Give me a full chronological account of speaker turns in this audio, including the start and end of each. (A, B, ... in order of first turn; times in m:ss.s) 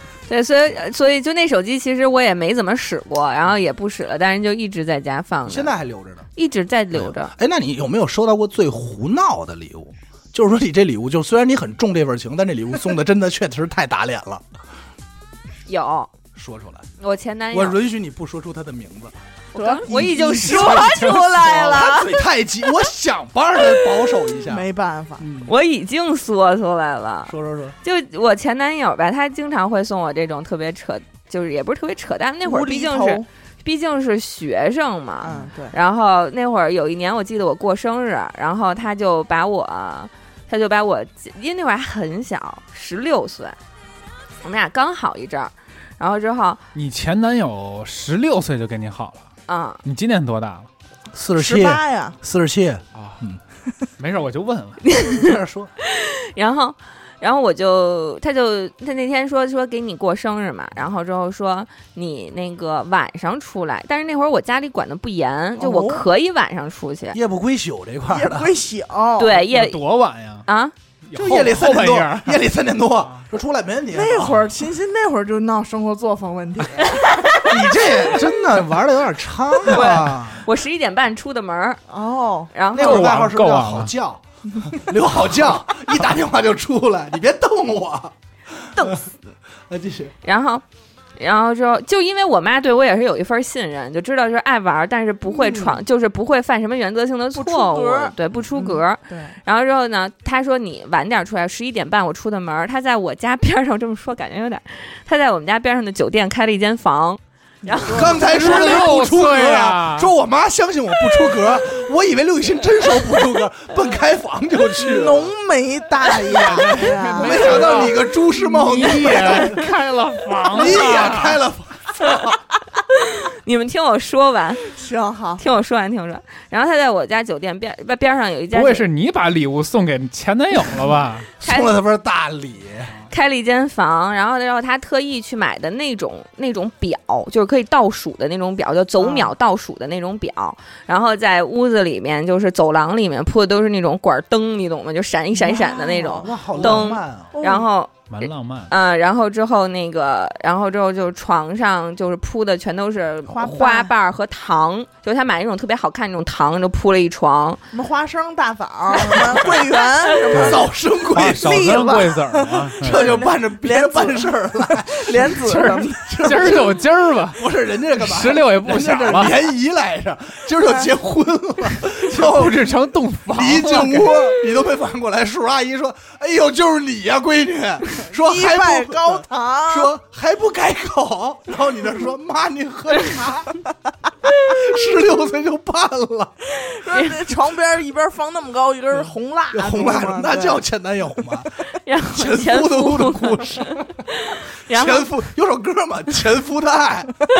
0:00.3-0:05.7 A
0:05.5-0:06.3 B
0:06.4-0:07.3 A
0:06.9-0:14.4 B
0:15.7-0:16.1 A
0:16.4-0:16.8 B
0:17.0-0:17.8 A
0:17.5-0:19.2 B
0:19.5-0:22.1 A
0:19.6-0:21.8 C
0:19.8-0:24.6 B
0:20.5-0:21.4 D
0:24.5-0:25.2 C
0:25.2-0:25.5 B
0:25.5-0:43.6 A
0:27.3-0:27.8 B
0:32.4-0:33.3 C
0:35.2-0:35.8 C
0:44.4-0:46.6 A
0:46.7-0:49.3 D
0:49.5-0:49.8 A
0:49.8-0:50.7 D
0:51.1-0:53.4 B
0:51.4-0:52.2 C
0:53.0-0:53.2 D
0:54.0-0:54.8 D
0:54.8-1:07.2 A
0:55.0-0:55.7 B
1:05.6-1:06.0 C
1:07.1-1:08.5 B
1:08.1-1:09.6 C
1:09.2-1:09.8 A
1:09.5-1:10.5 D
1:10.5-1:10.7 A
1:11.1-1:12.4 D
1:11.2-1:14.4 B
1:13.9-1:17.5 C
1:17.4-1:20.4 B
1:19.6-1:21.8 A
1:21.9-1:22.5 C
1:22.5-1:23.1 A
1:22.7-1:29.0 B
1:22.8-1:23.9 D
1:28.8-1:29.1 C
1:29.7-1:30.1 B
1:30.2-1:30.6 A
1:31.2-1:48.5 A
1:35.4-1:35.7 C
1:37.4-1:39.4 C
1:47.6-1:48.4 C
1:47.8-1:55.3 B
1:48.2-1:50.1 D
1:54.8-1:57.9 C
1:56.2-2:01.4 D
1:56.3-1:59.7 B
2:00.5-2:02.4 B
2:02.9-2:04.6 A
2:04.7-2:05.4 C
2:05.4-2:08.8 A
2:08.5-2:11.3 D
2:11.4-2:11.7 A
2:11.4-2:12.9 B
2:13.1-2:37.6 A
2:19.0-2:19.3 C
2:25.4-2:27.7 C
2:26.0-2:27.4 B
2:28.1-2:28.7 D
2:33.3-2:33.9 C
2:37.7-2:40.7 C
2:40.3-2:43.2 D
2:40.4-2:41.9 B
2:41.3-2:46.4 C
2:42.8-2:52.6 B
2:45.5-2:47.4 D
2:48.0-2:49.4 D
2:50.6-2:50.9 C
2:52.0-2:54.2 D
2:53.3-3:03.5 B
2:58.2-2:59.9 C
3:04.4-3:06.4 B
3:06.6-3:10.6 C
3:06.9-3:07.2 A
3:09.5-3:11.5 B
3:11.8-3:15.1 A
3:12.1-3:14.1 B
3:14.7-3:17.1 B